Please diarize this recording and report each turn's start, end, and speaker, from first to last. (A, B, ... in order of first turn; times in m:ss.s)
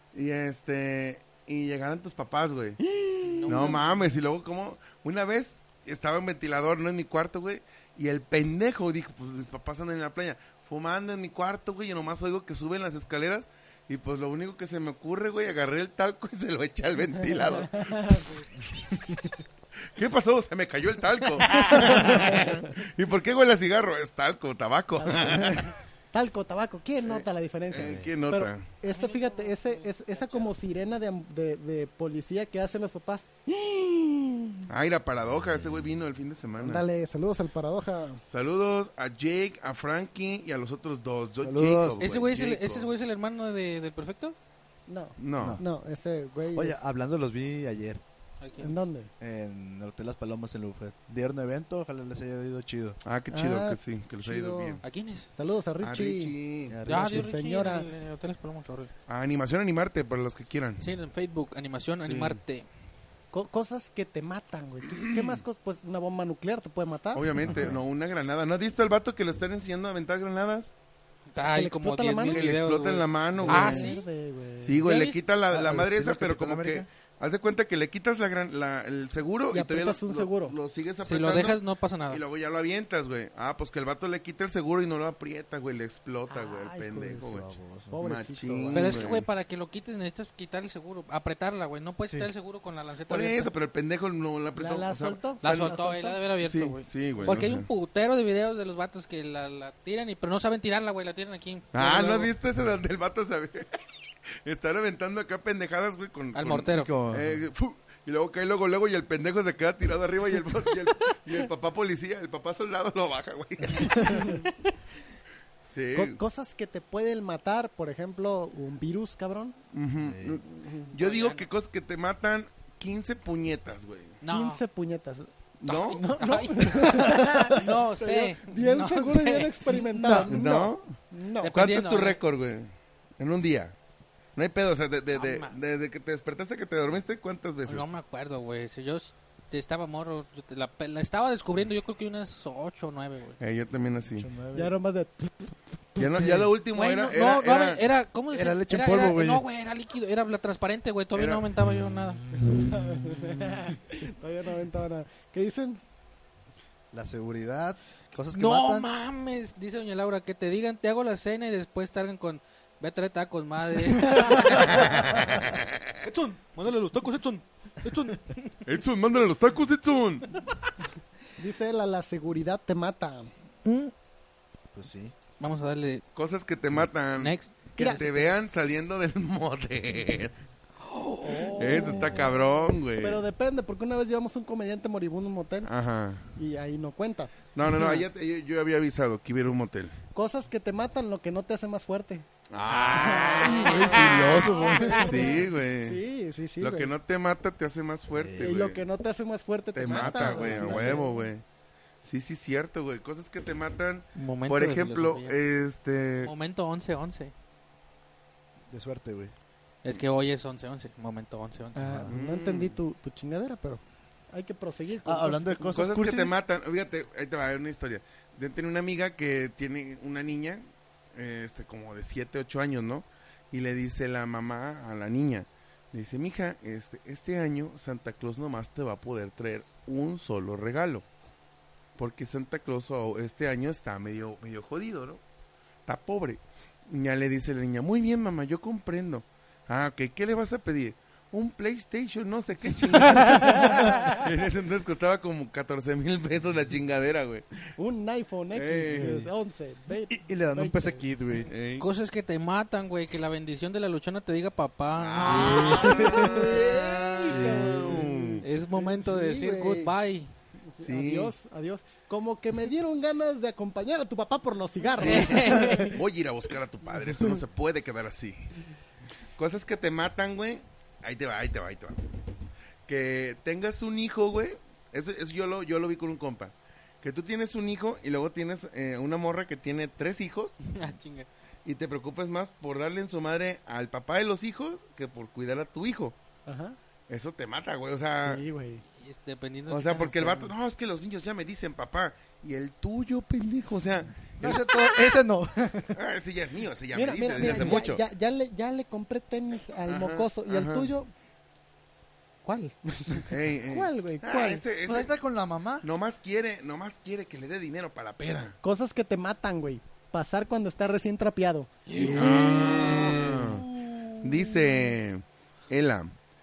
0:00.1-0:02.8 A
0:02.9-0:03.5 B
0:03.2-0:04.0 C
0:03.5-0:19.2 A
0:17.5-0:18.4 B
0:19.9-0:25.7 A
0:21.5-0:21.8 C
0:21.5-0:22.6 B
0:25.0-0:34.6 B
0:27.0-0:28.6 A
0:27.8-0:28.1 D
0:28.8-0:30.6 C
0:34.7-0:36.8 A
0:35.4-0:35.9 D
0:36.6-0:38.2 B
0:38.3-0:42.9 A
0:41.4-0:42.0 D
0:42.0-0:44.4 C
0:44.9-0:46.8 B
0:45.2-0:45.6 A
0:45.4-0:45.6 D
0:46.6-0:48.0 D
0:48.4-0:48.8 C
0:48.6-0:49.1 B
0:49.2-0:53.0 D
0:53.0-0:54.8 A
0:53.3-0:56.4 B
0:54.8-0:55.3 C
0:55.8-0:56.8 A
0:56.7-0:57.3 D
0:56.9-0:57.9 B
0:56.9-0:58.9 C
0:59.1-1:00.8 A
1:00.8-1:02.7 C
1:02.0-1:02.4 A
1:03.3-1:07.5 B
1:05.0-1:05.4 A
1:07.1-1:10.7 A
1:07.4-1:07.8 D
1:11.3-1:14.0 C
1:11.4-1:12.5 B
1:12.2-1:13.9 A
1:13.4-1:14.8 B
1:14.6-1:29.3 A
1:14.8-1:15.2 C
1:15.5-1:16.9 D
1:19.5-1:20.6 B
1:21.0-1:22.2 C
1:26.3-1:29.1 B
1:27.3-1:28.0 D
1:28.7-1:33.5 C
1:33.1-1:35.7 A
1:34.6-1:36.2 B
1:35.4-1:42.3 C
1:36.4-1:37.7 A
1:41.7-1:43.7 A
1:44.4-1:54.3 A
1:46.3-1:46.9 C
1:46.7-1:47.5 D
1:53.8-1:54.5 B
1:54.4-1:54.7 C
1:55.7-1:56.2 A
1:55.9-1:59.6 B
1:59.7-2:04.2 A
2:00.0-2:00.4 D
2:00.6-2:00.9 B
2:00.9-2:01.5 C
2:04.2-2:04.6 C
2:04.3-2:11.6 B
2:05.6-2:06.0 A
2:05.7-2:09.7 C
2:09.8-2:10.4 D
2:10.2-2:11.0 A
2:11.4-2:12.2 C
2:11.5-2:13.8 A
2:14.4-2:17.9 A
2:15.1-2:15.6 C
2:17.6-2:23.4 C
2:23.4-2:24.3 A
2:24.1-2:24.7 D
2:24.6-2:26.1 B
2:26.0-2:27.8 A
2:26.2-2:26.5 D
2:26.7-2:32.3 C
2:28.3-2:29.4 D
2:31.2-2:31.5 A
2:32.4-2:35.8 B
2:36.9-2:38.9 D
2:38.3-2:45.4 C
2:44.1-2:44.4 B
2:44.5-2:45.6 A
2:46.0-2:48.6 C
2:48.7-2:50.4 A
2:51.4-2:53.3 B
2:53.6-2:53.9 C
2:54.7-2:55.1 D
2:55.4-2:56.0 C
2:56.2-3:00.4 A
2:57.2-2:58.3 C
2:57.8-2:58.3 B
3:00.8-3:02.3 C
3:01.2-3:02.4 B
3:01.6-3:03.2 A
3:03.0-3:05.7 B
3:05.6-3:06.3 A
3:06.3-3:07.3 B
3:07.6-3:10.0 A
3:07.7-3:08.0 C
3:10.1-3:12.2 B
3:12.5-3:14.1 A
3:12.7-3:15.0 C
3:12.8-3:16.9 B
3:13.3-3:15.3 D
3:15.0-3:16.0 A
3:16.6-3:18.8 A
3:18.1-3:18.6 D
3:18.4-3:21.2 B
3:19.8-3:21.4 A
3:19.9-3:21.1 D
3:22.0-3:26.3 A
3:24.2-3:25.4 C
3:26.2-3:27.3 C
3:28.7-3:29.3 D
3:29.8-3:32.0 C
3:31.8-3:35.8 B
3:31.8-3:32.1 D
3:32.1-3:32.8 A
3:35.0-3:36.4 D
3:35.7-3:51.0 A
3:52.0-3:55.2 A
3:55.9-4:07.6 A
4:03.1-4:04.0 C
4:03.5-4:04.1 B
4:07.8-4:11.1 B
4:08.5-4:09.2 A
4:08.9-4:09.3 D
4:10.1-4:11.5 D
4:11.5-4:11.9 A
4:11.8-4:16.3 C
4:15.0-4:18.4 A
4:15.2-4:16.3 D
4:15.3-4:19.9 B
4:17.3-4:18.0 D
4:18.4-4:20.3 C
4:20.7-4:26.0 B
4:20.8-4:21.3 A
4:25.0-4:28.5 A
4:25.0-4:26.0 C
4:29.4-4:32.0 A
4:32.9-4:40.6 A
4:40.6-4:41.3 C
4:41.6-4:46.2 A
4:46.5-4:46.8 B
4:47.1-4:48.4 A
4:48.2-4:48.8 B
4:49.0-4:50.5 C
4:49.7-4:54.7 A
4:54.4-4:56.0 D
4:55.9-4:58.0 A
4:56.9-5:01.1 B
4:57.4-4:57.8 D
4:59.9-5:00.9 A
5:02.4-5:04.6 B
5:03.3-5:05.1 A
5:04.8-5:05.9 D
5:05.8-5:08.6 A
5:08.6-5:11.7 B
5:11.9-5:14.1 C
5:11.9-5:13.8 D
5:12.1-5:13.7 A
5:14.2-5:16.1 A